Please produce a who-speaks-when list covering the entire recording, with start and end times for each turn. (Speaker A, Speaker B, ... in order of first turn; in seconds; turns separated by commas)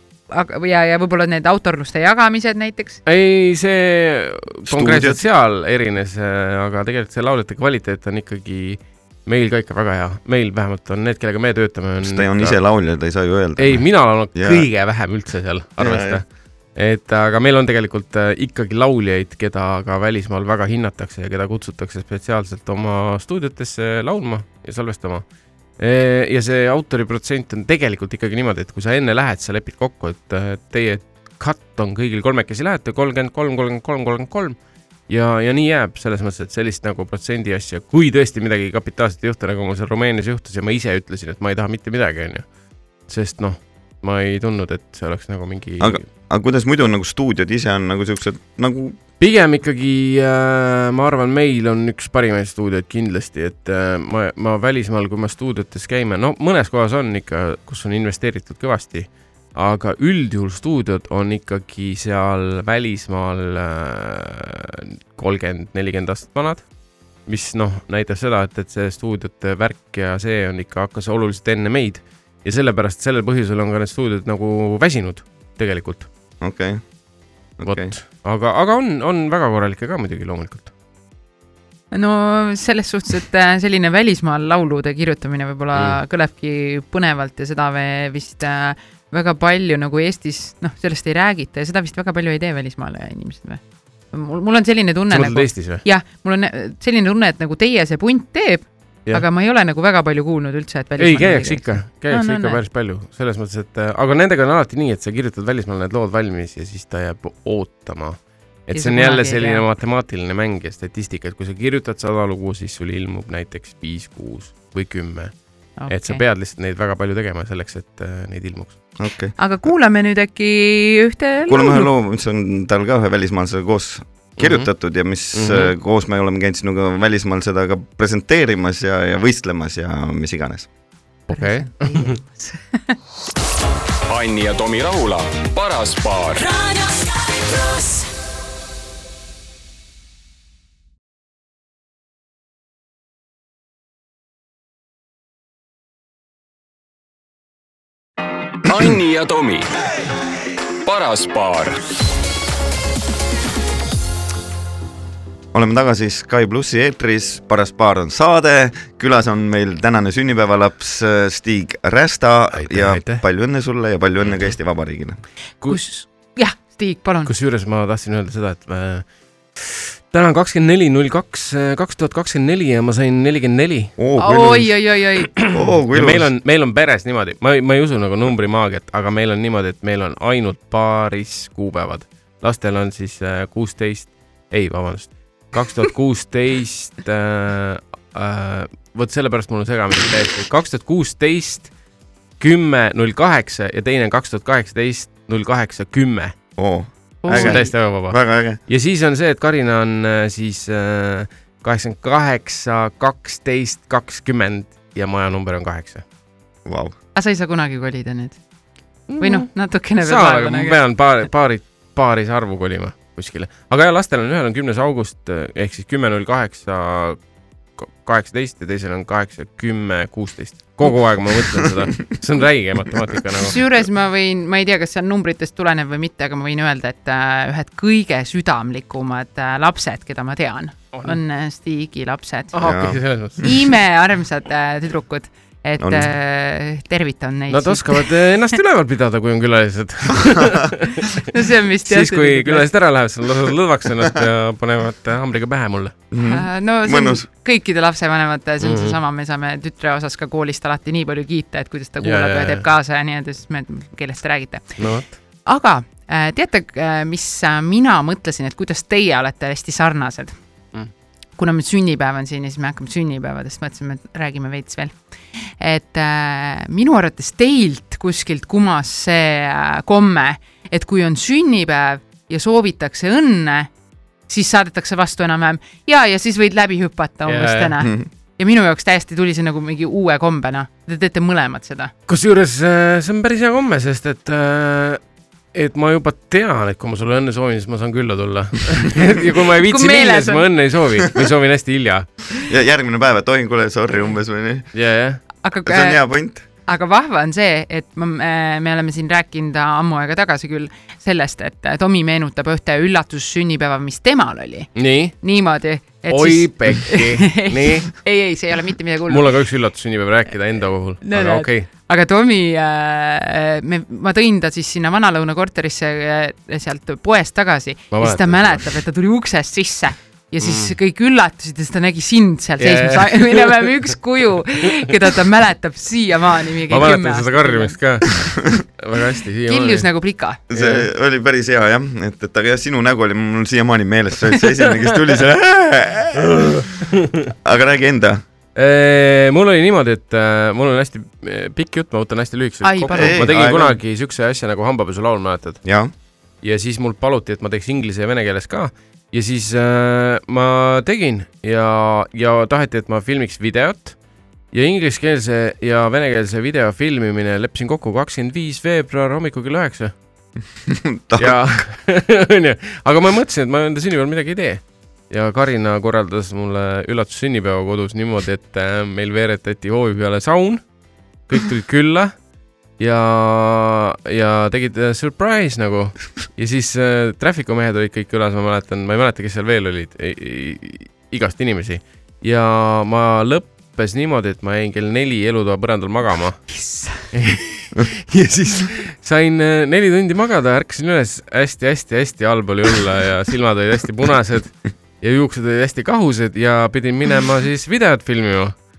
Speaker A: 0.3-3.0, Speaker B: 3.0-12.6, Speaker C: 4.7-5.2, Speaker C: 12.0-14.7, Speaker B: 13.6-42.5, Speaker C: 15.8-16.2, Speaker B: 43.0-46.1, Speaker C: 45.8-49.0, Speaker B: 49.2-66.7, Speaker B: 67.2-76.1, Speaker C: 76.4-76.8, Speaker C: 77.6-77.9, Speaker B: 77.6-80.7, Speaker A: 81.9-102.6, Speaker B: 85.7-86.0, Speaker B: 95.1-95.8, Speaker B: 101.0-118.8, Speaker A: 108.7-109.6, Speaker A: 115.8-116.2, Speaker C: 119.0-119.4, Speaker A: 119.4-121.9, Speaker C: 121.5-130.7, Speaker B: 124.4-124.7, Speaker B: 125.3-125.7, Speaker B: 131.3-132.2, Speaker A: 131.3-133.0, Speaker D: 134.1-136.7, Speaker D: 148.6-149.7, Speaker D: 150.8-151.8, Speaker C: 155.5-165.2, Speaker B: 162.5-163.2, Speaker B: 164.2-164.5, Speaker A: 165.6-167.3, Speaker B: 167.2-173.9, Speaker C: 174.0-174.7, Speaker A: 174.2-175.3, Speaker B: 175.2-191.7, Speaker C: 175.5-176.3, Speaker B: 192.4-196.3, Speaker C: 196.6-198.6, Speaker A: 197.2-197.7, Speaker B: 197.3-206.0, Speaker C: 206.6-206.9, Speaker A: 207.1-208.4, Speaker B: 209.1-217.2, Speaker A: 209.2-210.8, Speaker B: 217.8-223.6, Speaker A: 223.4-232.6, Speaker B: 232.5-233.5, Speaker C: 232.6-233.0, Speaker A: 233.4-238.1, Speaker C: 235.8-236.1, Speaker B: 237.5-241.1, Speaker A: 241.3-242.7, Speaker B: 241.8-245.9, Speaker C: 246.1-247.3, Speaker A: 246.2-260.4, Speaker B: 248.6-249.0, Speaker B: 252.0-252.6, Speaker B: 254.8-255.2, Speaker A: 261.4-273.7, Speaker A: 274.3-281.9, Speaker B: 277.2-277.7, Speaker B: 282.1-285.0, Speaker B: 285.5-292.1, Speaker A: 289.7-290.4, Speaker C: 292.4-294.7, Speaker B: 294.7-295.2, Speaker A: 295.4-296.0, Speaker C: 295.6-296.4, Speaker A: 296.6-309.3, Speaker B: 304.8-305.1, Speaker B: 306.1-308.0, Speaker B: 309.1-311.7, Speaker A: 311.0-327.8, Speaker B: 317.9-318.7, Speaker B: 320.4-320.7, Speaker B: 322.6-323.7, Speaker B: 326.7-329.9, Speaker A: 329.5-330.4, Speaker C: 330.5-336.6, Speaker B: 330.5-330.9, Speaker B: 336.3-337.3, Speaker C: 337.4-338.2, Speaker B: 338.5-345.6, Speaker A: 342.6-343.3, Speaker C: 342.9-343.8, Speaker C: 345.6-345.9, Speaker B: 346.4-353.9, Speaker B: 354.5-359.9, Speaker C: 360.6-361.6, Speaker B: 361.2-370.6, Speaker B: 371.3-372.2, Speaker B: 372.8-398.6, Speaker A: 386.5-387.1